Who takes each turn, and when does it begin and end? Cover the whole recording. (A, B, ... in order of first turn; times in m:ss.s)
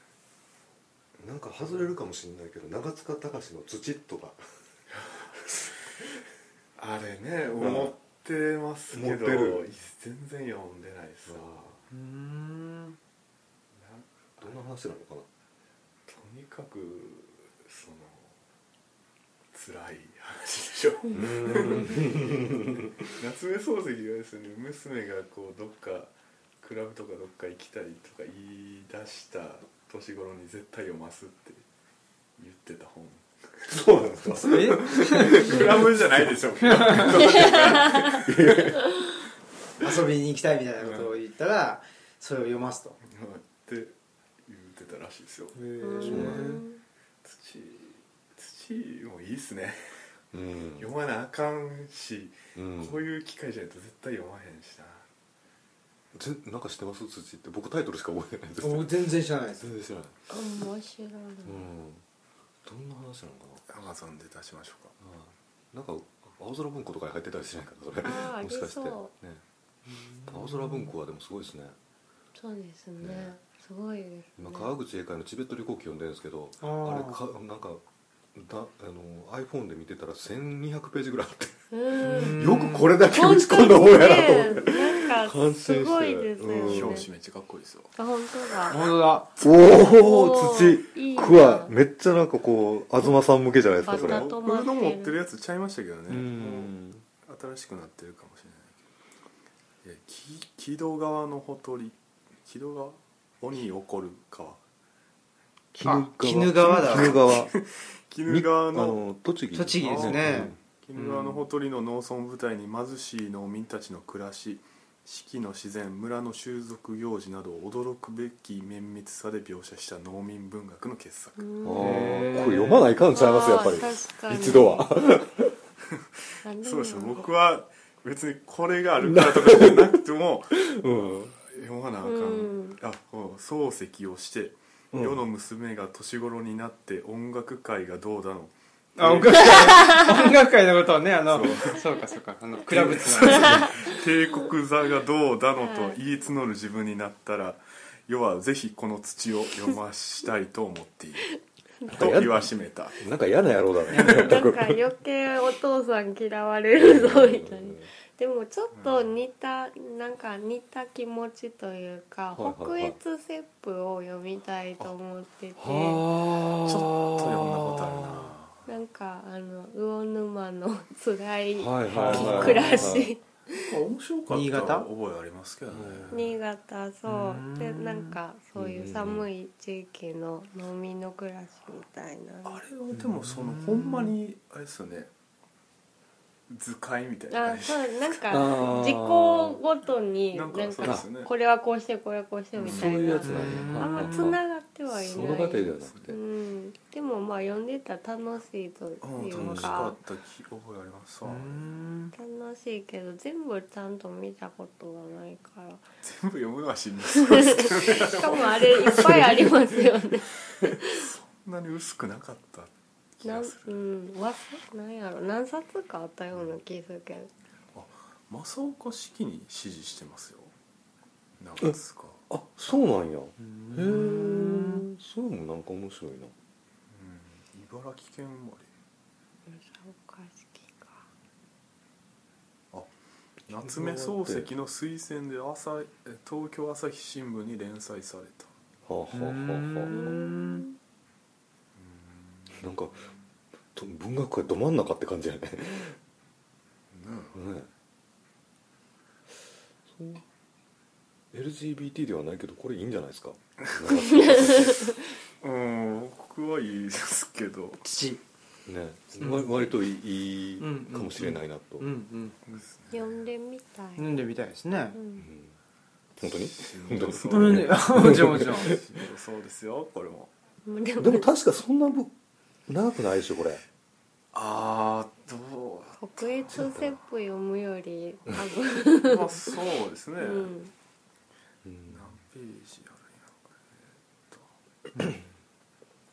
0:01.2-0:04.4 A
0:04.9-0:05.3 B
0:05.5-0:06.0 A
0:06.8-0:11.6 B
0:07.6-0:07.9 A
0:08.9-0:09.7 A
0:11.2-0:11.8 A
0:11.9-0:13.0 C
0:13.7-0:14.5 B
0:14.4-0:15.3 A
0:16.1-0:18.3 B
0:19.5-0:31.6 B
0:21.1-0:23.1 A
0:32.4-0:33.8 B
0:33.7-0:36.3 A
0:34.4-0:35.7 C
0:34.7-0:38.7 B
0:36.6-0:37.2 C
0:36.9-0:39.0 A
0:37.3-0:38.2 D
0:39.8-0:43.0 C
0:40.8-0:41.1 B
0:43.0-0:45.6 B
0:45.5-0:46.6 C
0:45.8-0:46.8 D
0:46.0-0:46.6 A
0:47.2-0:50.1 B
0:50.3-0:50.9 A
0:50.8-0:55.0 B
0:52.5-0:53.0 A
0:56.1-0:58.9 A
0:58.6-0:59.6 C
0:59.6-1:00.2 A
1:00.3-1:01.7 D
1:01.4-1:02.0 A
1:02.6-1:03.6 A
1:03.7-1:04.9 B
1:05.0-1:09.4 A
1:08.0-1:09.1 D
1:09.9-1:10.9 C
1:10.3-1:11.8 A
1:12.3-1:14.7 D
1:13.0-1:13.3 A
1:14.4-1:17.8 A
1:16.6-1:17.2 C
1:18.3-1:27.1 A
1:21.7-1:22.4 D
1:22.0-1:22.9 C
1:23.1-1:27.1 D
1:26.6-1:27.9 B
1:28.0-1:28.9 D
1:28.7-1:29.3 C
1:29.4-1:34.3 A
1:29.8-1:31.7 D
1:33.8-1:35.2 D
1:33.9-1:36.6 B
1:36.1-1:36.7 C
1:36.1-1:37.0 A
1:37.2-1:38.7 B
1:39.8-1:44.6 B
1:45.7-1:47.5 A
1:45.8-1:47.2 C
1:46.8-1:49.0 B
1:48.2-1:50.6 A
1:49.5-1:51.4 C
1:49.8-2:01.4 B
2:01.4-2:04.9 D
2:01.6-2:05.6 A
2:01.8-2:02.9 C
2:06.4-2:07.2 D
2:06.6-2:20.1 B
2:09.0-2:11.3 A
2:12.0-2:12.8 D
2:14.9-2:15.2 A
2:19.0-2:23.9 C
2:19.6-2:20.1 D
2:21.3-2:21.8 B
2:22.6-2:33.0 B
2:23.4-2:24.5 D
2:25.6-2:26.0 D
2:31.8-2:32.1 D
2:31.9-2:34.8 A
2:33.9-2:46.0 D
2:34.0-2:34.4 B
2:36.8-2:37.9 A
2:38.7-2:39.2 B
2:42.3-2:43.0 A
2:45.6-2:48.3 A
2:46.6-2:48.6 B
2:48.7-2:53.8 D
2:51.6-2:53.1 A
2:51.9-2:52.9 C
2:52.1-2:52.6 B
2:53.5-2:56.4 B
2:54.3-2:54.9 C
2:55.7-2:56.3 A
2:56.1-3:02.6 D
2:57.0-2:58.2 C
2:58.5-2:59.3 A
3:02.4-3:05.1 B
3:02.9-3:04.1 C
3:06.5-3:08.5 B
3:07.3-3:20.0 D
3:08.3-3:09.6 A
3:10.3-3:11.3 B
3:12.6-3:13.2 B
3:12.6-3:16.2 A
3:13.2-3:14.2 C
3:15.1-3:16.1 B
3:19.0-3:21.6 B
3:19.2-3:19.8 A
3:21.2-3:22.1 C
3:22.1-3:25.8 D
3:26.0-3:29.8 B
3:27.2-3:31.1 D
3:30.7-3:33.8 B
3:33.2-3:37.3 D
3:36.3-3:36.6 B
3:37.7-3:40.5 B
3:41.4-3:42.2 B
3:42.3-3:46.3 A
3:43.4-3:44.9 C
3:46.9-3:48.7 B
3:49.5-3:51.0 D
3:53.5-3:58.5 B
3:53.6-3:54.5 A
3:58.8-4:00.1 A
3:59.1-4:00.7 C
3:59.9-4:00.8 D
4:01.8-4:03.1 B
4:02.5-4:03.0 A
4:03.7-4:06.0 A
4:06.9-4:07.4 B
4:07.3-4:07.7 A
4:09.9-4:10.2 A
4:11.3-4:15.0 A
4:14.0-4:15.0 D
4:15.4-4:17.8 B
4:17.8-4:18.2 C
4:18.6-4:21.9 A
4:19.2-4:19.6 C
4:20.6-4:22.4 C
4:22.4-4:23.2 B
4:22.9-4:24.1 D
4:24.0-4:25.0 C
4:24.9-4:25.3 D
4:25.2-4:25.5 A
4:26.2-4:28.8 A
4:26.2-4:30.3 B
4:27.2-4:28.8 C
4:30.6-4:31.3 D
4:31.0-4:32.1 A
4:32.7-4:33.6 A
4:34.3-4:36.6 B
4:36.0-4:39.5 D
4:36.5-4:37.0 A
4:38.9-4:40.5 B
4:40.2-4:40.7 D
4:41.6-4:42.2 A
4:41.9-4:44.5 B